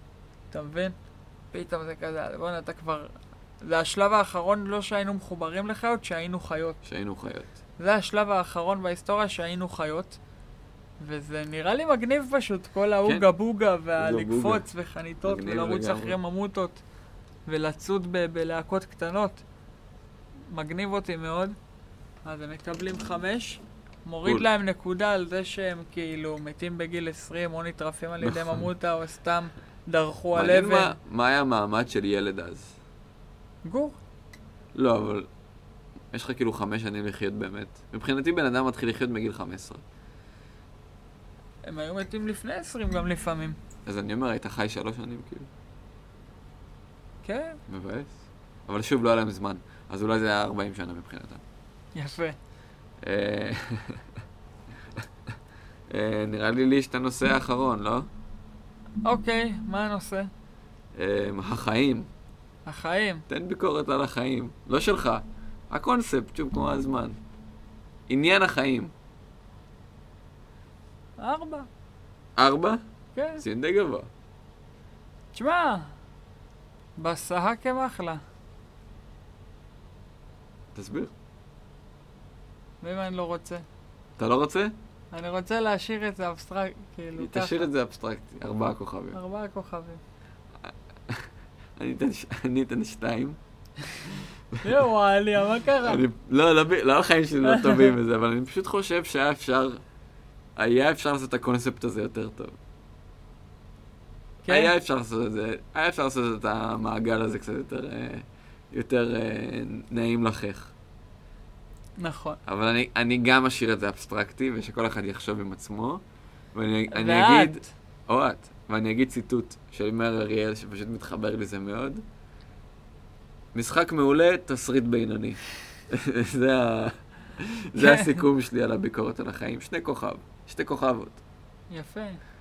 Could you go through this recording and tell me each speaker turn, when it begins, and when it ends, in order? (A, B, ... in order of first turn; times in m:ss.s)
0:00.5-0:01.0 A
0:01.5-0:06.8 A
0:06.8-0:07.5 B
0:07.8-0:10.2 A
0:11.0-0:16.8 A
0:14.0-0:14.6 B
0:15.2-0:16.2 B
0:17.4-0:19.4 A
0:20.5-0:21.6 A
0:22.2-0:31.0 A
0:28.2-0:28.7 B
0:30.3-0:32.7 B
0:33.6-0:34.0 A
0:34.7-0:35.3 B
0:36.1-0:39.8 B
0:41.6-0:43.6 A
0:43.8-0:45.5 B
0:47.2-0:47.6 A
0:47.7-0:51.4 B
0:51.9-0:52.4 A
0:53.0-0:54.0 B
0:55.9-0:58.1 B
0:59.0-1:00.3 A
1:00.9-1:02.1 B
1:02.6-1:03.2 A
1:03.3-1:07.2 B
1:08.1-1:08.9 B
1:11.2-1:11.7 A
1:12.4-1:12.8 B
1:13.1-1:13.4 A
1:13.4-1:14.1 B
1:15.3-1:15.9 A
1:17.0-1:18.2 A
1:20.7-1:21.1 B
1:22.8-1:23.6 A
1:24.2-1:24.7 B
1:25.1-1:27.7 A
1:27.2-1:29.2 B
1:29.1-1:30.0 A
1:30.6-1:33.4 B
1:34.0-1:36.0 A
1:34.5-1:34.8 B
1:35.8-1:39.8 B
1:37.4-1:37.9 A
1:40.6-1:42.6 B
1:44.4-1:44.7 A
1:44.4-1:50.7 B
1:52.0-1:52.4 A
1:52.4-1:56.0 B
1:56.5-2:02.0 B
1:56.9-1:57.7 A
2:03.5-2:11.2 B
2:07.8-2:08.3 A
2:11.7-2:12.2 A